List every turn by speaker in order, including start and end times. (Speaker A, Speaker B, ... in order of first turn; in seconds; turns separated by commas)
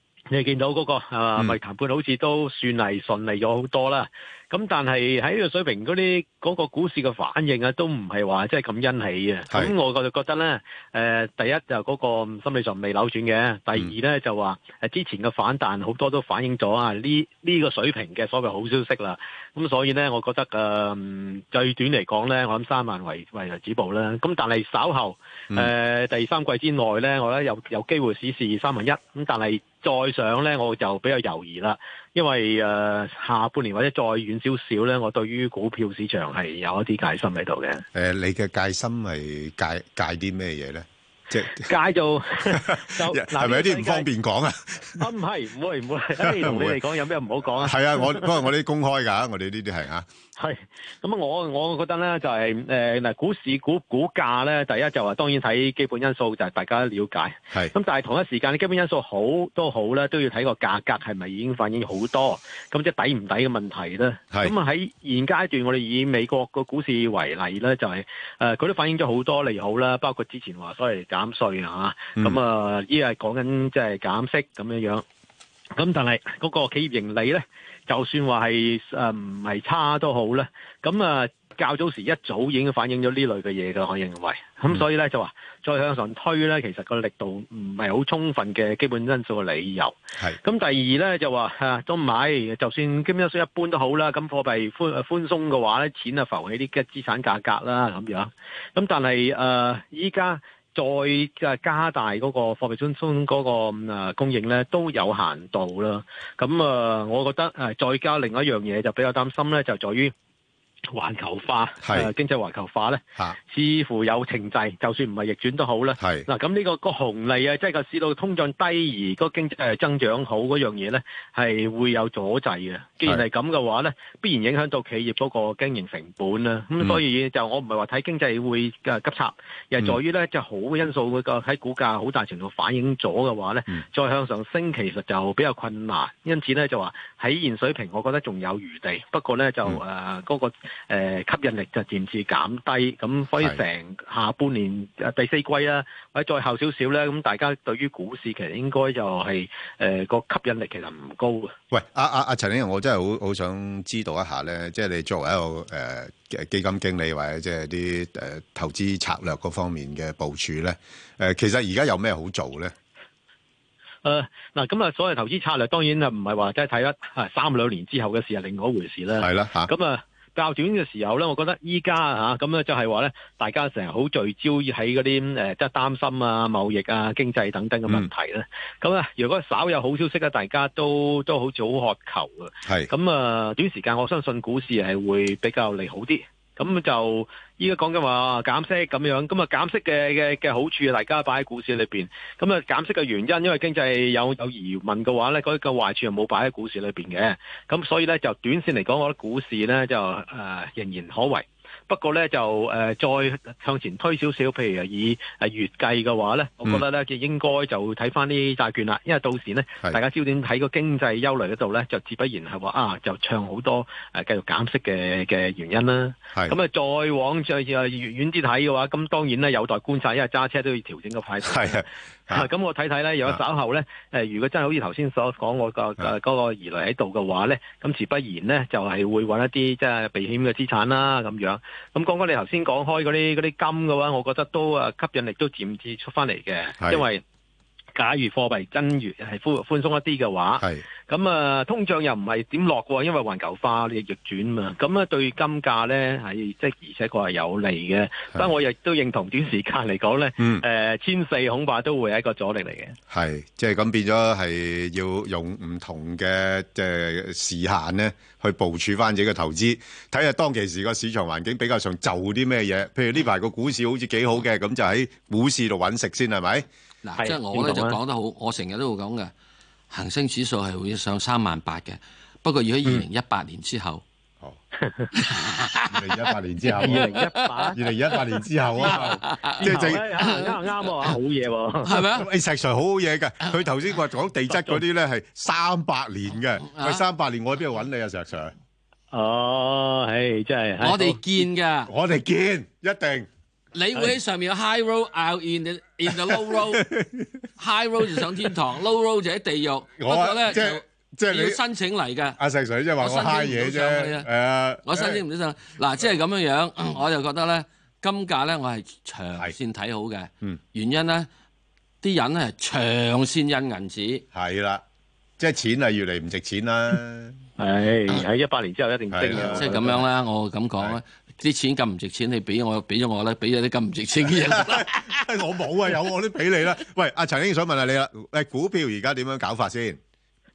Speaker A: 0.3-37.9, Speaker B: 37.9-41.7, Speaker A: 41.6-44.1, Speaker B: 42.5-45.1, Speaker A: 45.0-48.4, Speaker B: 46.2-46.8, Speaker B: 47.6-50.1, Speaker A: 50.4-75.0, Speaker A: 75.8-110.1, Speaker A: 110.9-151.6, Speaker B: 111.8-112.1, Speaker B: 116.0-116.3, Speaker B: 151.7-162.7, Speaker A: 164.0-237.2, Speaker B: 169.2-169.7, Speaker B: 182.7-182.9, Speaker B: 221.4-222.5, Speaker B: 236.8-237.1, Speaker A: 237.9-253.0, Speaker B: 250.4-250.6, Speaker B: 253.1-266.7, Speaker C: 267.0-269.3, Speaker A: 267.2-268.0, Speaker C: 269.9-274.0, Speaker A: 274.8-275.1, Speaker C: 275.2-277.7, Speaker B: 275.9-277.2, Speaker A: 276.7-282.1, Speaker B: 277.7-280.4, Speaker C: 278.8-281.1, Speaker C: 281.8-282.3, Speaker B: 282.1-288.5, Speaker C: 286.6-287.0, Speaker A: 289.1-291.2, Speaker C: 290.8-291.9, Speaker B: 291.9-293.3, Speaker C: 293.7-296.9, Speaker B: 296.3-297.4, Speaker C: 297.6-302.4, Speaker B: 300.0-301.6, Speaker B: 302.4-305.2, Speaker C: 303.0-304.3, Speaker C: 304.9-311.3, Speaker C: 312.0-314.2, Speaker B: 314.3-314.8, Speaker B: 315.4-317.4, Speaker A: 317.6-320.0, Speaker B: 319.1-319.8, Speaker C: 319.5-325.2, Speaker B: 324.4-330.0